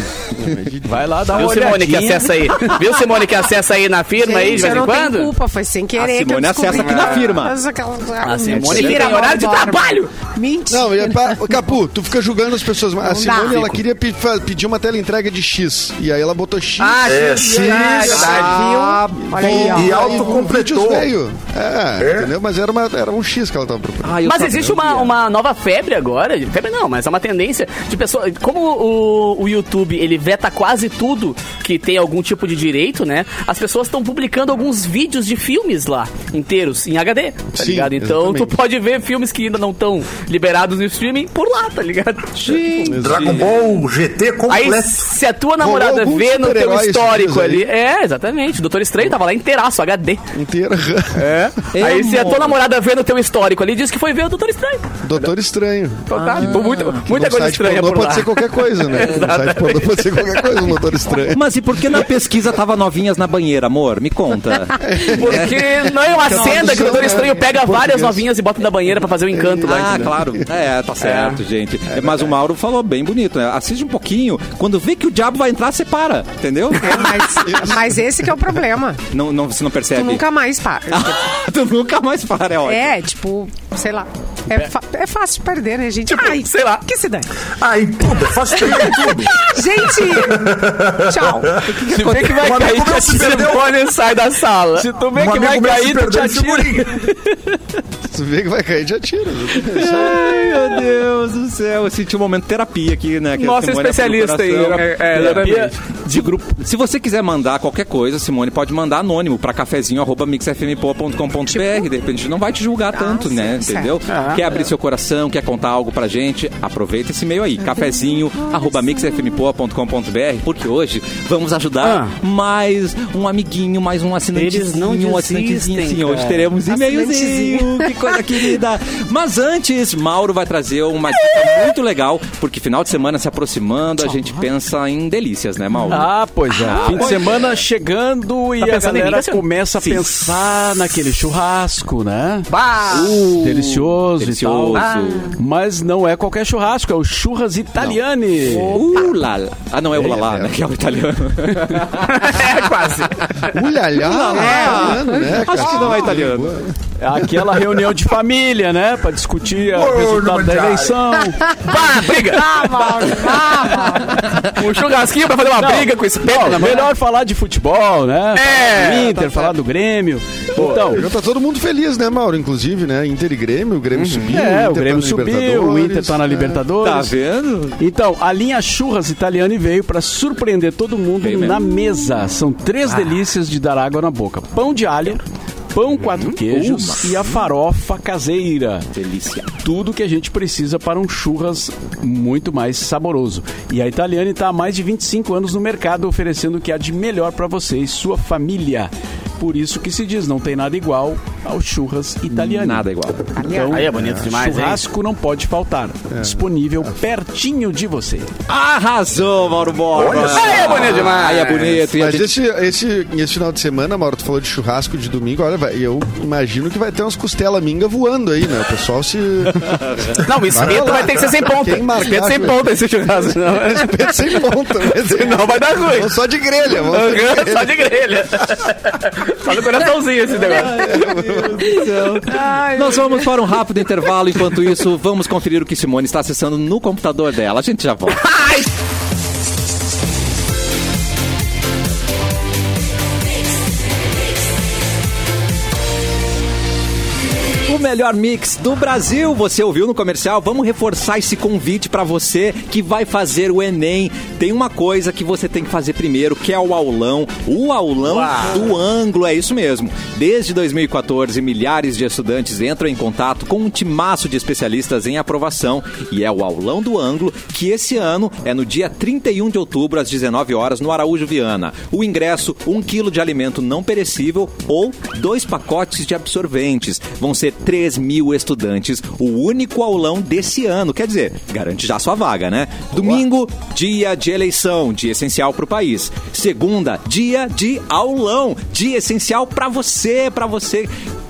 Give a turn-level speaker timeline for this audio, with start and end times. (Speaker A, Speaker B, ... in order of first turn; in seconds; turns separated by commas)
Speaker A: 0.4-1.2, Speaker B: 0.8-2.8, Speaker C: 1.3-5.3, Speaker D: 4.2-11.6, Speaker E: 6.0-7.6, Speaker C: 6.7-7.4, Speaker C: 8.2-10.1, Speaker E: 8.5-9.3, Speaker A: 10.7-17.2, Speaker D: 13.0-13.7, Speaker C: 16.8-18.7, Speaker F: 17.0-18.4, Speaker E: 18.1-19.6, Speaker D: 18.1-20.4, Speaker A: 19.2-24.2, Speaker F: 19.4-21.1, Speaker F: 22.0-22.3, Speaker E: 24.0-25.2, Speaker C: 24.2-43.0, Speaker A: 37.5-38.6, Speaker E: 42.4-43.6, Speaker A: 42.8-43.4, Speaker F: 43.0-45.1, Speaker C: 44.5-50.2, Speaker A: 45.6-47.7, Speaker A: 50.3-51.3, Speaker C: 51.1-54.9, Speaker E: 51.7-52.6, Speaker A: 55.0-61.5, Speaker C: 56.1-60.0, Speaker E: 56.1-57.0, Speaker E: 61.3-65.6, Speaker A: 64.8-68.3, Speaker C: 65.0-70.1, Speaker E: 66.3-67.0, Speaker A: 69.3-70.5, Speaker E: 69.6-77.6, Speaker C: 71.0-71.4, Speaker D: 76.8-79.0, Speaker A: 77.5-77.8, Speaker E: 79.1-80.2, Speaker D: 79.9-81.2, Speaker E: 80.9-83.0, Speaker D: 82.7-87.3, Speaker C: 86.1-86.8, Speaker F: 87.6-89.4, Speaker D: 88.6-91.6, Speaker C: 89.0-89.4, Speaker F: 90.0-93.8, Speaker E: 91.7-92.5, Speaker B: 91.8-93.6, Speaker C: 93.0-94.9, Speaker B: 94.8-97.6, Speaker F: 95.1-97.0, Speaker A: 98.1-100.3, Speaker E: 99.7-105.5, Speaker C: 103.3-105.8, Speaker B: 105.1-106.6, Speaker E: 106.1-137.6, Speaker D: 111.5-111.9, Speaker D: 112.9-114.0, Speaker C: 114.1-114.5, Speaker C: 121.8-122.1, Speaker C: 124.3-127.2, Speaker D: 126.7-127.9, Speaker C: 131.3-131.7, Speaker B: 135.9-142.5, Speaker C: 138.6-140.3, Speaker C: 142.5-143.3, Speaker E: 142.9-145.3, Speaker B: 143.2-148.8, Speaker C: 144.7-145.3, Speaker E: 148.7-152.3, Speaker A: 149.9-150.6, Speaker C: 152.1-153.3, Speaker A: 153.5-156.7, Speaker E: 154.0-156.6, Speaker D: 154.3-155.1, Speaker B: 157.0-161.5, Speaker F: 159.7-161.0, Speaker C: 161.6-162.6, Speaker D: 161.7-164.3, Speaker C: 164.4-166.9, Speaker B: 165.6-171.1, Speaker C: 168.3-169.3, Speaker C: 170.6-170.9, Speaker A: 170.8-176.7, Speaker C: 174.0-174.3, Speaker B: 174.3-177.1, Speaker E: 176.8-177.8, Speaker B: 177.8-188.9, Speaker E: 181.2-181.6, Speaker E: 186.0-187.4, Speaker E: 188.9-189.5, Speaker B: 189.6-208.3, Speaker E: 202.3-203.3, Speaker D: 203.4-203.8, Speaker C: 203.7-204.8, Speaker A: 206.1-206.4, Speaker E: 208.5-212.4, Speaker F: 209.9-210.8, Speaker C: 210.1-211.8, Speaker A: 211.9-228.0, Speaker C: 220.2-224.4, Speaker C: 224.9-226.2, Speaker C: 226.7-231.1, Speaker E: 230.4-238.3, Speaker A: 230.6-231.7, Speaker D: 232.3-233.2, Speaker C: 238.3-238.6, Speaker E: 247.7-290.9, Speaker C: 258.0-258.7